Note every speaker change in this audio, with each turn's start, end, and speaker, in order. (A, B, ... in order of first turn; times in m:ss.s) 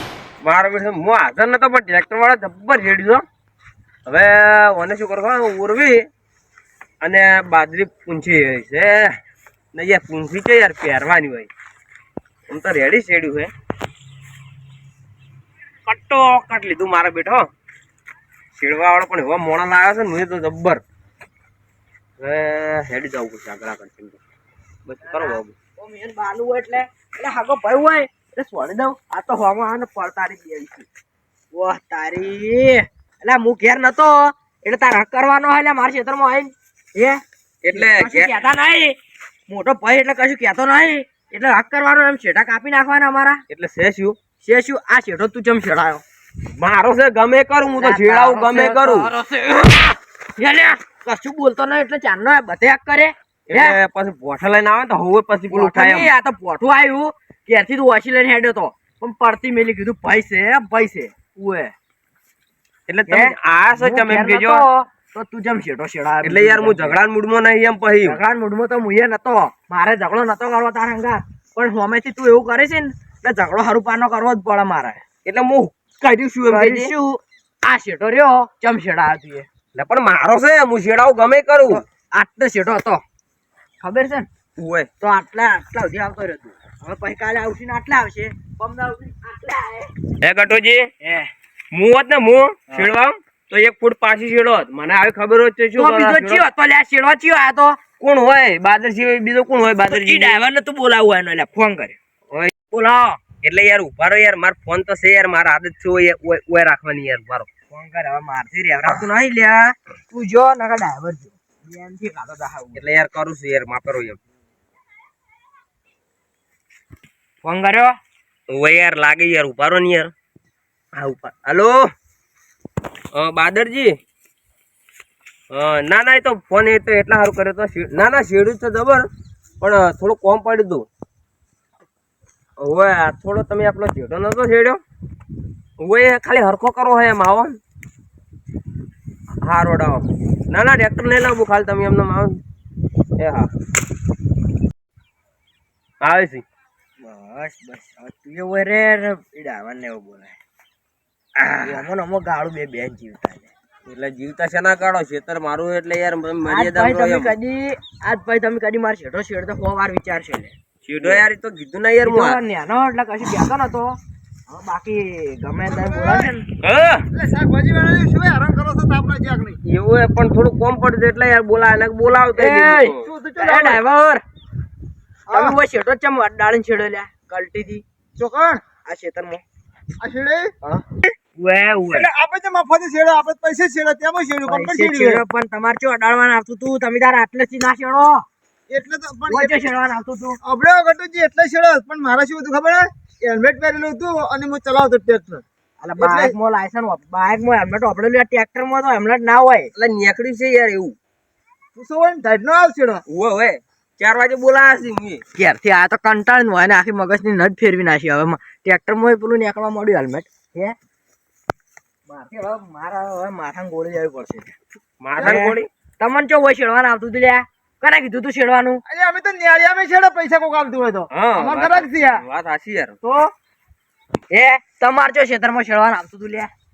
0:00.4-0:03.2 A
0:04.0-0:06.0 A
0:07.0-0:09.1 A
0:09.7-0:11.5 A
0:12.5-0:13.5 A
0:15.8-0:17.5 A
0:18.5-0:20.8 A
0:22.2-0:24.2 A
0:24.8-0:25.5 A
0:25.0-0:30.8 B
0:31.5-0:37.2 B
0:37.6-0:38.3 A
0:37.7-0:38.9 B
0:39.5-0:43.4 B
0:43.5-0:44.2 A
0:44.4-0:46.0 B
0:46.5-0:49.1 A
0:47.8-0:53.8 B
0:53.5-0:56.1 A
0:55.5-1:01.7 B
1:02.9-1:04.6 A
1:03.1-1:07.0 B
1:06.2-1:08.2 A
1:08.0-1:15.0 B
1:15.2-1:16.9 A
1:16.5-1:19.5 B
1:19.7-1:21.8 A
1:21.7-1:23.0 B
1:23.8-1:24.3 B
1:24.6-1:24.9 A
1:25.0-1:29.9 B
1:30.2-1:30.9 A
1:31.0-1:31.3 B
1:31.7-1:36.4 A
1:35.8-1:37.8 B
1:38.0-1:40.4 A
1:39.8-1:42.0 B
1:42.7-1:43.2 B
1:43.4-1:47.5 A
1:47.7-1:52.8 B
1:52.7-1:54.2 A
1:57.4-1:58.0 B
1:58.5-2:00.1 A
2:01.0-2:01.8 A
2:03.1-2:03.9 A
2:05.5-2:09.1 A
2:09.6-2:10.8 A
2:12.6-2:14.8 A
2:15.8-2:17.6 A
2:19.4-2:22.4 A
2:23.2-2:23.5 A
2:26.0-2:26.4 A
2:27.0-2:30.4 B
2:31.4-2:31.8 A
2:31.6-2:33.5 B
2:33.8-2:37.3 A
2:36.4-2:41.2 B
2:40.8-2:42.4 A
2:42.0-2:44.0 B
2:44.5-2:46.4 B
2:45.7-2:46.3 C
2:46.6-2:47.0 A
2:47.1-2:49.6 C
2:49.6-2:53.0 A
2:52.4-2:54.2 B
2:53.0-2:53.8 C
2:55.3-2:55.6 C
2:55.3-2:57.8 B
2:58.2-2:58.6 C
2:58.8-2:59.4 B
3:00.0-3:00.5 C
3:00.6-3:02.1 B
3:01.9-3:05.2 C
3:04.5-3:08.2 B
3:08.7-3:09.6 C
3:09.3-3:10.4 B
3:10.4-3:15.4 C
3:15.8-3:19.7 B
3:16.0-3:16.3 C
3:19.7-3:21.0 A
3:21.7-3:23.0 C
3:23.1-3:25.2 A
3:25.4-3:30.7 B
3:32.1-3:34.5 B
3:35.0-3:35.7 A
3:35.1-3:35.4 C
3:35.2-3:38.8 B
3:38.8-3:42.2 C
3:41.1-3:43.0 A
3:43.0-3:43.3 C
3:44.3-3:46.5 B